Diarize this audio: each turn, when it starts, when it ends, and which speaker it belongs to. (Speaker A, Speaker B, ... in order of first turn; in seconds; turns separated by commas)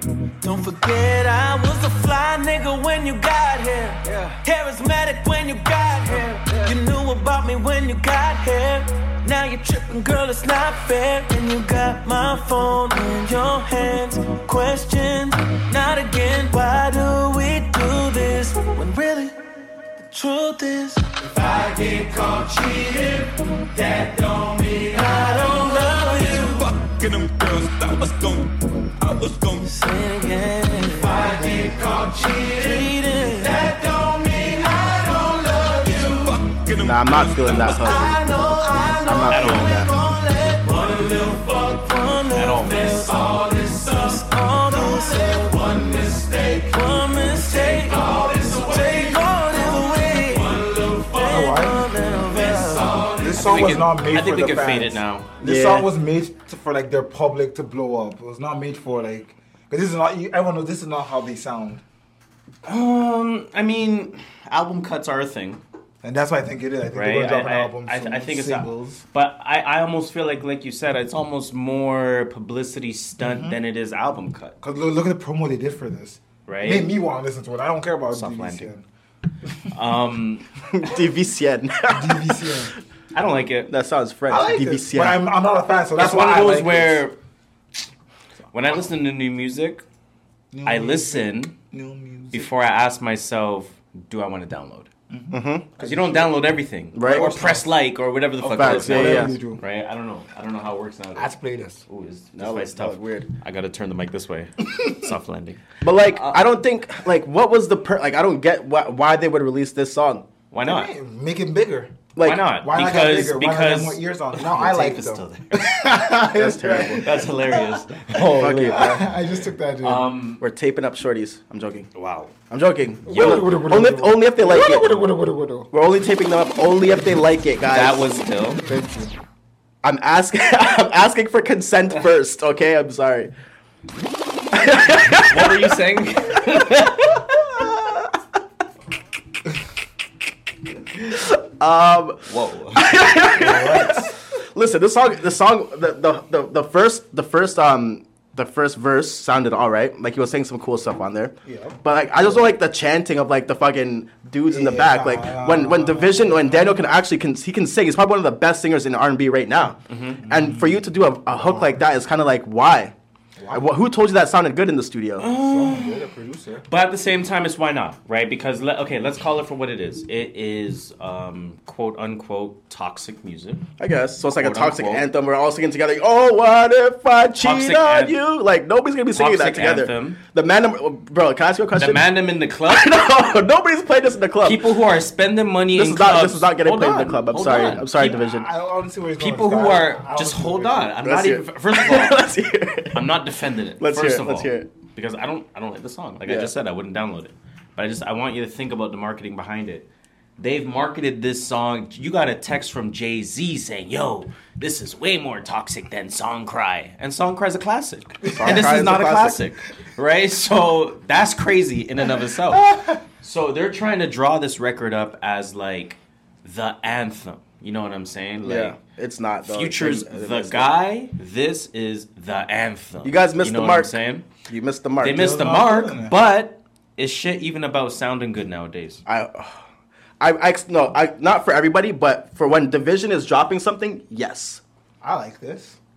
Speaker A: 0.4-19.4, Speaker A: 20.0-26.9, Speaker B: 26.4-29.7, Speaker A: 29.6-36.5, Speaker B: 36.4-38.1, Speaker C: 36.8-38.2, Speaker A: 37.6-53.4, Speaker C: 39.0-39.9, Speaker D: 39.3-39.9, Speaker D: 42.4-43.1, Speaker E: 51.2-51.8, Speaker E: 53.2-61.8, Speaker D: 53.3-55.3, Speaker C: 55.4-55.9, Speaker D: 62.6-65.6, Speaker E: 66.0-69.0, Speaker D: 66.9-74.6, Speaker E: 73.2-73.6, Speaker E: 74.6-78.8, Speaker D: 76.5-76.9, Speaker D: 78.1-78.7, Speaker D: 79.7-80.5, Speaker C: 80.7-82.7, Speaker E: 81.9-82.7, Speaker D: 83.1-83.7, Speaker C: 83.7-85.2, Speaker E: 84.3-87.1, Speaker D: 86.0-87.2, Speaker D: 88.5-89.8, Speaker E: 90.5-92.5, Speaker D: 90.7-91.6, Speaker D: 92.3-94.9, Speaker E: 95.1-96.3, Speaker C: 95.3-95.7, Speaker D: 95.8-101.3, Speaker C: 96.9-97.3, Speaker E: 97.0-97.7, Speaker E: 98.4-99.6, Speaker C: 98.5-99.4, Speaker E: 101.2-101.8, Speaker D: 101.9-106.5, Speaker C: 102.3-103.3, Speaker C: 105.8-110.3, Speaker D: 110.5-110.9, Speaker E: 110.6-117.8, Speaker C: 112.2-112.5, Speaker D: 112.2-115.7, Speaker C: 116.2-117.1, Speaker D: 116.7-119.1, Speaker C: 118.2-119.1, Speaker E: 118.4-120.1, Speaker D: 119.8-120.4, Speaker C: 120.4-121.9, Speaker D: 121.9-122.3, Speaker C: 122.5-125.0, Speaker E: 123.1-125.7, Speaker D: 123.1-123.5, Speaker C: 125.7-128.1, Speaker D: 127.7-128.6, Speaker E: 128.6-129.1, Speaker C: 129.8-133.3, Speaker C: 134.5-135.8, Speaker D: 135.2-137.2, Speaker C: 137.3-138.1, Speaker C: 141.1-162.9, Speaker D: 142.3-142.9, Speaker E: 143.3-144.1, Speaker E: 151.4-152.5, Speaker E: 154.5-156.9, Speaker D: 159.9-160.3, Speaker E: 160.2-161.8, Speaker E: 163.4-163.7, Speaker C: 163.5-165.3, Speaker D: 165.2-166.1, Speaker E: 165.3-166.7, Speaker D: 166.7-173.7, Speaker C: 173.8-184.7, Speaker D: 174.4-175.1, Speaker D: 177.4-178.2, Speaker D: 179.1-180.2, Speaker D: 181.8-183.1, Speaker D: 184.4-188.2, Speaker C: 185.7-188.5, Speaker E: 187.9-191.0, Speaker D: 189.2-192.3, Speaker C: 191.0-193.1, Speaker D: 192.9-199.9, Speaker C: 193.8-194.7, Speaker C: 196.3-196.5, Speaker D: 200.4-218.8, Speaker E: 208.2-208.7, Speaker C: 208.3-209.4, Speaker C: 218.4-220.7, Speaker D: 219.4-224.3, Speaker C: 223.0-225.3, Speaker D: 225.0-229.0, Speaker E: 225.0-226.2, Speaker C: 229.1-229.6, Speaker C: 230.2-234.6, Speaker E: 235.0-235.8